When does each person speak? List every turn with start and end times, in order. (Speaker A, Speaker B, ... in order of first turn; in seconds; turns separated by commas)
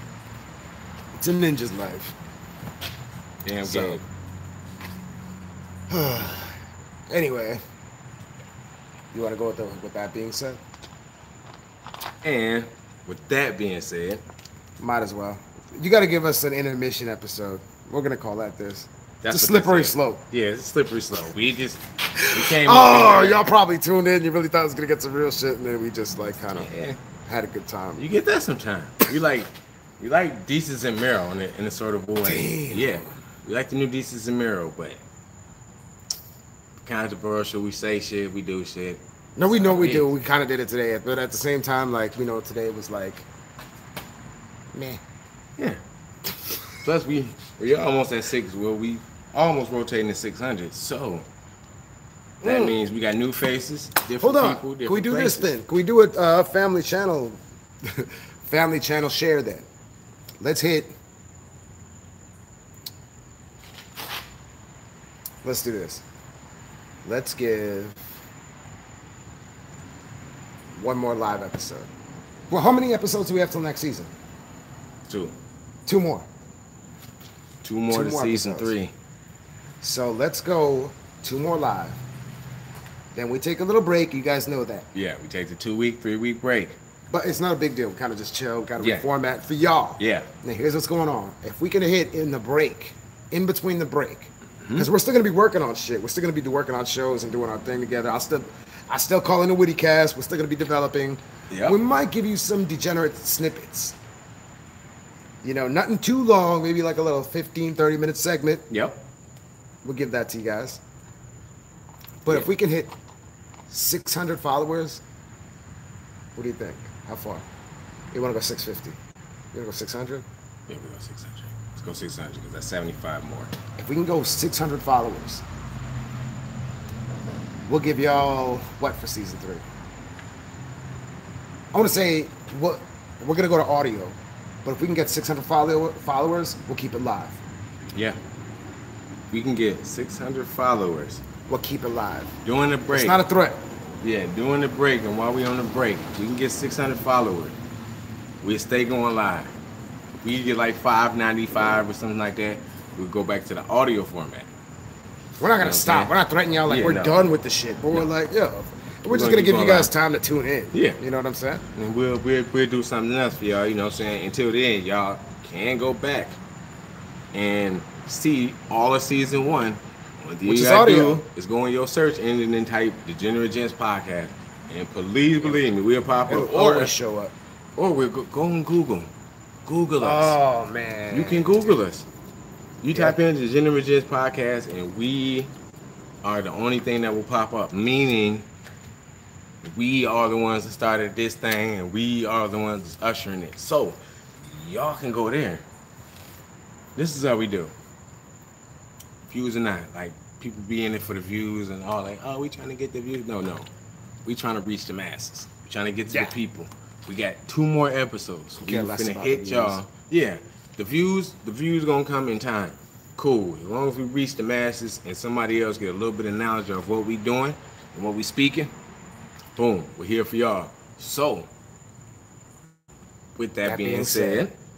Speaker A: 1.1-2.1, Speaker B: 3.4-4.0, Speaker A: 3.6-4.0, Speaker A: 5.9-7.6, Speaker A: 9.1-10.6, Speaker B: 12.2-14.2, Speaker A: 14.8-20.2, Speaker B: 19.2-23.5, Speaker A: 22.1-26.7, Speaker B: 26.5-27.0, Speaker A: 27.2-28.0, Speaker B: 28.0-35.0, Speaker A: 32.2-33.0, Speaker B: 36.8-40.1, Speaker A: 39.4-43.2, Speaker A: 44.7-45.0, Speaker B: 46.8-51.2, Speaker A: 52.4-52.8, Speaker B: 52.4-55.5, Speaker A: 54.2-59.6, Speaker A: 60.4-60.9, Speaker A: 65.4-66.0, Speaker A: 67.0-68.0, Speaker A: 70.7-71.9, Speaker A: 72.5-74.1, Speaker B: 75.1-75.3, Speaker A: 75.8-76.3, Speaker B: 77.6-78.9, Speaker A: 77.9-78.7, Speaker A: 79.8-82.0, Speaker A: 83.1-84.8, Speaker B: 84.9-86.8, Speaker A: 87.1-104.0, Speaker B: 88.8-89.0, Speaker B: 90.0-90.3, Speaker B: 94.6-94.9, Speaker B: 101.5-101.8, Speaker A: 105.4-108.7, Speaker B: 108.7-109.0, Speaker A: 109.8-110.8, Speaker A: 112.2-112.9, Speaker A: 113.7-115.0, Speaker A: 116.3-117.4, Speaker A: 118.1-119.0, Speaker A: 119.5-120.2, Speaker B: 120.7-123.5, Speaker A: 123.8-125.4, Speaker A: 127.7-129.6, Speaker A: 131.7-137.4, Speaker B: 139.3-141.2, Speaker A: 141.5-142.3, Speaker B: 142.4-143.3, Speaker A: 142.9-143.6, Speaker B: 144.0-147.6, Speaker B: 148.4-149.5, Speaker B: 150.2-154.5, Speaker A: 155.4-161.6, Speaker B: 155.6-156.1, Speaker B: 156.7-157.3, Speaker B: 159.0-159.9, Speaker B: 160.7-161.0, Speaker B: 161.7-166.4, Speaker B: 167.3-176.9, Speaker A: 170.4-171.2, Speaker A: 176.3-177.3, Speaker B: 177.8-179.1, Speaker B: 179.7-180.4, Speaker A: 180.0-181.8, Speaker B: 181.1-182.1, Speaker B: 182.8-185.5, Speaker A: 182.9-183.2, Speaker B: 186.2-188.4, Speaker B: 189.6-195.6, Speaker B: 196.9-197.7, Speaker B: 199.3-203.7, Speaker B: 204.2-218.7, Speaker A: 206.1-206.3, Speaker A: 208.6-209.8, Speaker B: 219.6-221.5, Speaker B: 223.4-224.5, Speaker A: 223.6-224.5